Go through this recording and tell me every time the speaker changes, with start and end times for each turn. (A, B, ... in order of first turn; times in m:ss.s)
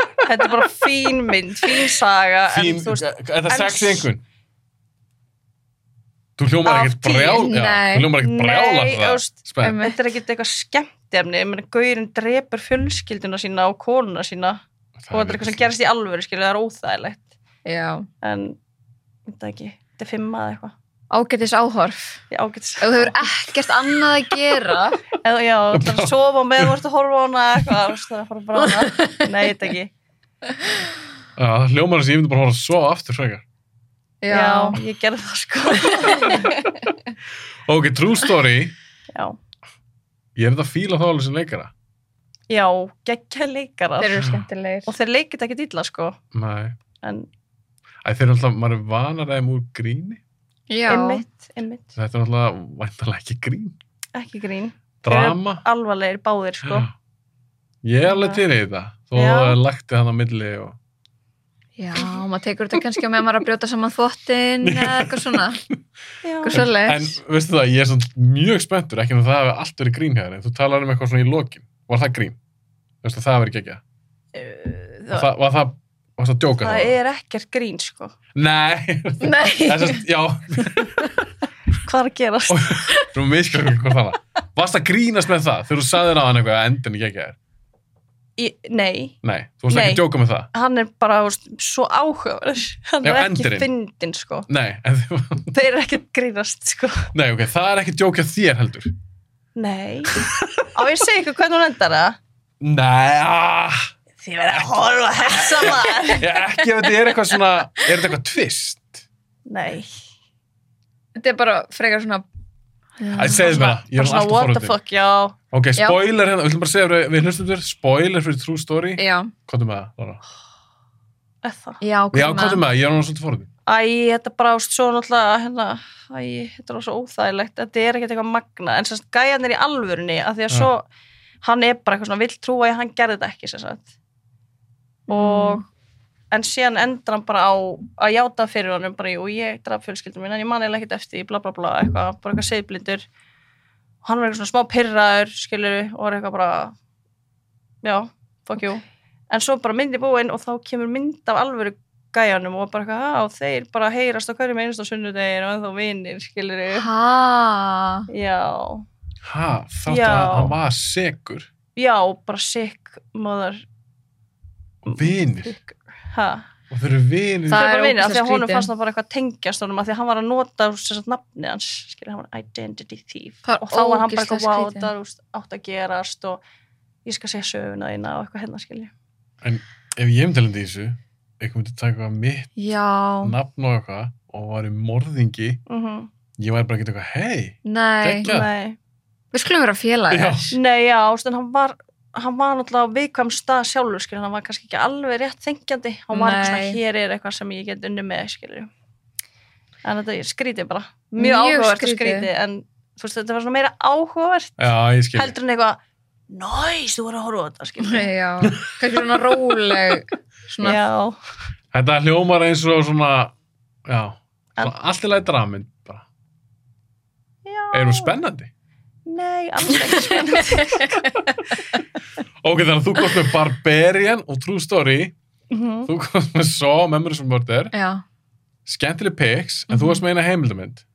0:00.2-0:04.1 A
0:02.5-0:04.2 B
0:06.4-0:09.8 B
0:06.6-0:07.6 A
0:07.3-0:08.1 C
0:08.2-0:14.6 A
0:09.6-0:10.0 C
0:15.0-0:15.7 B
0:15.1-0:17.2 A
0:17.6-0:18.1 C
0:18.2-0:18.6 A
0:19.3-0:20.7 A
0:21.1-0:22.2 C
0:22.3-0:23.2 A
0:22.8-0:25.0 C
0:25.2-0:29.9 A
0:25.7-0:26.7 B
0:28.6-0:29.2 C
0:31.4-0:33.4 B
0:34.2-0:34.8 C
0:34.3-0:36.5 A
0:36.1-0:36.6 C
0:37.6-0:38.7 B
0:40.4-0:41.7 B
0:42.5-0:44.2 A
0:44.0-0:44.9 C
0:44.2-0:44.4 B
0:44.9-0:46.2 A
0:46.3-0:46.8 B
0:47.0-0:47.3 A
0:48.0-0:50.2 B
0:50.7-0:51.2 C
0:50.9-0:51.9 A
0:52.0-0:53.8 B
0:54.1-0:56.9 A
0:55.0-0:55.6 B
0:56.6-0:56.9 B
0:57.8-1:00.8 B
0:58.0-0:58.4 A
0:59.1-0:59.6 A
1:01.8-1:05.6 C
1:04.6-1:05.8 B
1:06.2-1:06.6 A
1:06.4-1:07.1 C
1:06.5-1:12.4 B
1:13.0-1:13.8 B
1:14.3-1:15.3 A
1:15.1-1:17.0 B
1:16.6-1:18.1 A
1:18.3-1:21.1 B
1:19.2-1:20.0 C
1:21.8-1:22.7 A
1:22.5-1:27.4 B
1:28.4-1:29.2 A
1:29.2-1:30.5 B
1:29.7-1:34.5 A
1:33.0-1:33.7 B
1:34.5-1:35.5 B
1:35.5-1:37.1 A
1:37.1-1:38.9 B
1:39.6-1:42.2 A
1:40.2-1:40.7 B
1:42.6-1:43.9 B
1:44.2-1:46.3 A
1:45.5-1:49.0 B
1:49.5-1:49.9 A
1:51.2-1:52.2 C
1:53.0-1:53.8 C
1:53.2-1:54.8 B
1:53.4-1:55.4 A
1:55.5-2:00.2 B
1:59.0-1:59.3 C
2:01.4-2:01.8 A
2:01.8-2:02.6 C
2:02.1-2:03.5 B
2:03.7-2:10.8 A
2:11.4-2:13.9 A
2:15.1-2:15.6 C
2:15.1-2:15.6 A
2:16.3-2:23.0 A
2:24.0-2:26.7 A
2:27.8-2:36.9 A
2:36.7-2:38.1 C
2:38.1-2:38.8 A
2:39.2-2:41.5 B
2:39.9-2:40.5 A
2:41.8-2:43.6 A
2:44.8-2:45.5 B
2:44.9-2:46.4 A
2:46.7-2:47.7 B
2:47.5-2:48.7 C
2:47.5-2:56.4 A
2:53.4-2:54.9 C
2:57.0-2:58.9 A
2:59.4-3:02.5 B
3:02.6-3:03.3 C
3:03.2-3:05.6 B
3:05.7-3:06.1 A
3:06.4-3:08.5 B
3:07.6-3:08.3 C
3:08.2-3:08.8 A
3:09.3-3:10.5 C
3:10.1-3:10.5 B
3:10.5-3:18.7 A
3:16.1-3:16.8 C
3:19.8-3:25.8 A
3:21.2-3:22.3 C
3:24.6-3:25.3 B
3:26.3-3:28.1 A
3:27.8-3:30.8 C
3:28.4-3:29.0 B
3:30.6-3:31.2 A
3:31.7-3:33.3 B
3:33.8-3:36.0 B
3:37.4-3:38.1 A
3:37.7-3:38.5 B
3:39.1-3:41.2 A
3:39.9-3:41.3 C
3:42.4-3:45.1 B
3:45.5-3:45.9 A
3:45.9-3:47.7 B
3:47.7-3:48.0 C
3:48.6-3:50.8 B
3:49.7-3:50.0 C